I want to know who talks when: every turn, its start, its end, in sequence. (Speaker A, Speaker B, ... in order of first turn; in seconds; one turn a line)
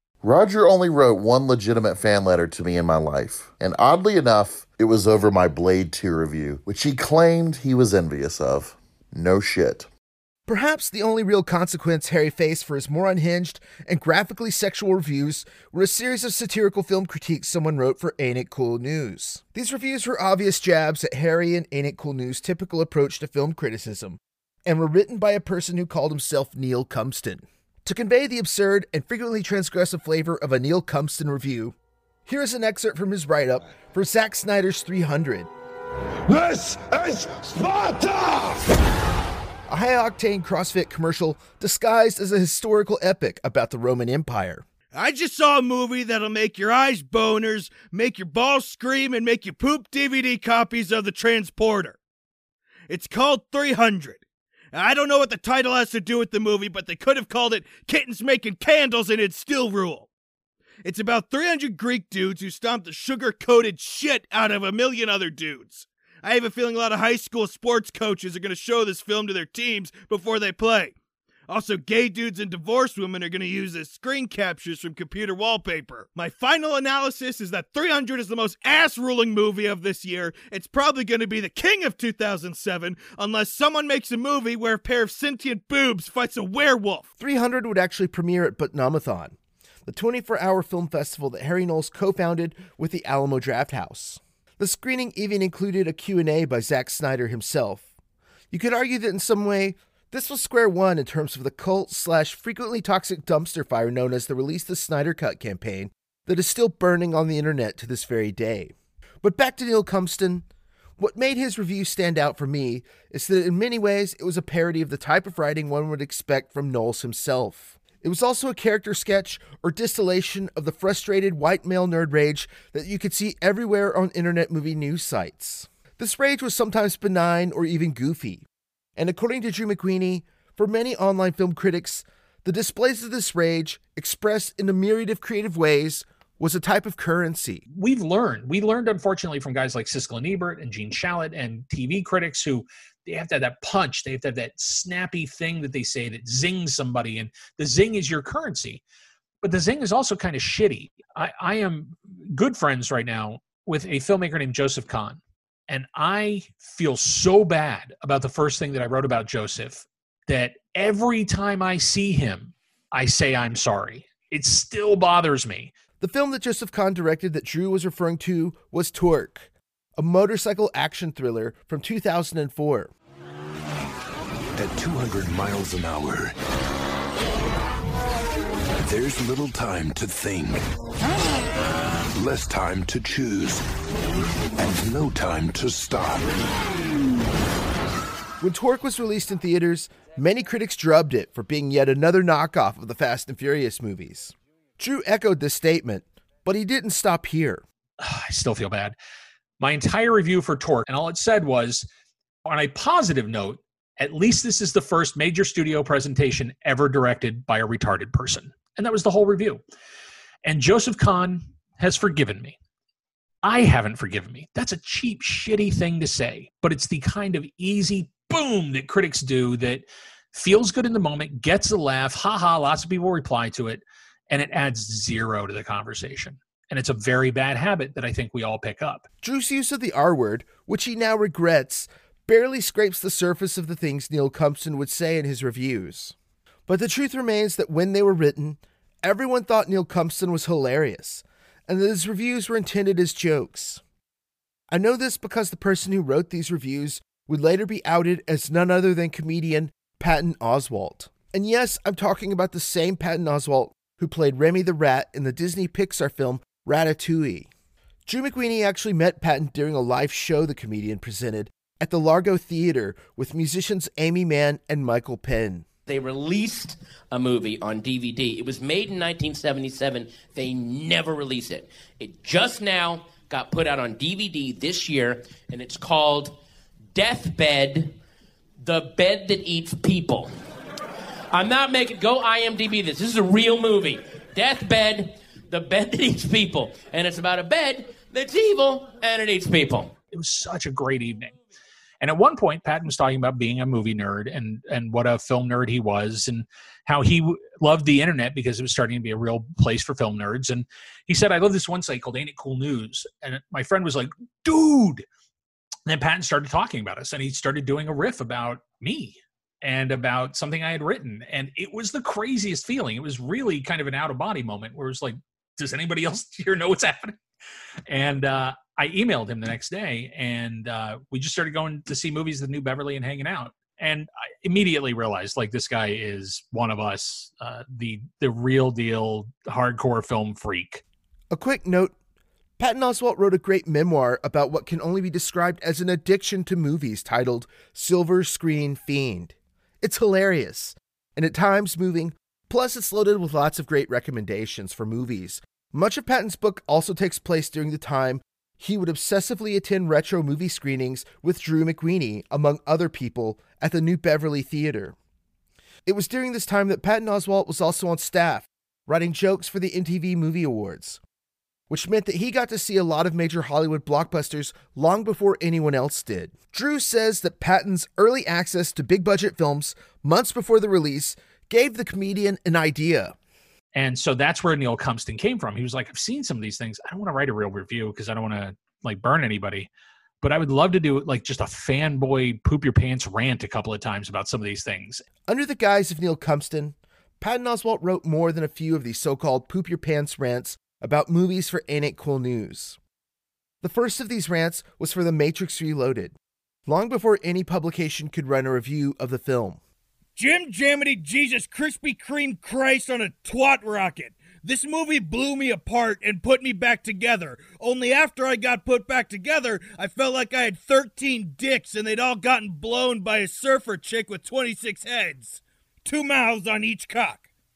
Speaker A: 0.2-9.9
Speaker B: 10.5-31.8
Speaker B: 32.3-35.5
Speaker C: 36.3-38.6
Speaker B: 39.7-44.6
Speaker D: 44.9-52.0
Speaker D: 52.9-54.2
Speaker D: 54.7-60.1
Speaker D: 60.8-71.0
Speaker D: 71.5-87.1
Speaker B: 87.2-97.9
Speaker B: 98.5-110.5
Speaker B: 111.0-128.4
Speaker B: 129.0-137.6
Speaker E: 137.7-148.8
Speaker E: 149.4-165.7
Speaker B: 166.0-172.9
Speaker C: 174.6-176.3
Speaker C: 178.8-180.6
Speaker C: 182.1-183.6
Speaker C: 184.6-186.5
Speaker B: 188.4-197.6
Speaker E: 198.0-198.9
Speaker E: 199.6-201.9
Speaker E: 202.5-209.6
Speaker E: 210.4-212.6
Speaker E: 213.4-229.1
Speaker B: 229.2-236.1
Speaker B: 236.7-243.8
Speaker B: 244.7-257.5
Speaker B: 258.1-265.7
Speaker F: 265.9-276.4
Speaker F: 276.9-278.0
Speaker F: 278.6-280.4
Speaker F: 281.3-290.0
Speaker E: 290.1-291.4
Speaker E: 292.0-305.1
Speaker E: 305.9-317.2
Speaker E: 317.9-330.8
Speaker B: 331.3-331.9
Speaker B: 332.6-355.0
Speaker B: 355.9-361.0
Speaker B: 361.7-373.1
Speaker E: 373.7-379.7
Speaker E: 380.2-385.1
Speaker B: 385.3-392.8
Speaker B: 393.6-396.1
Speaker B: 396.7-399.6
Speaker D: 400.1-417.3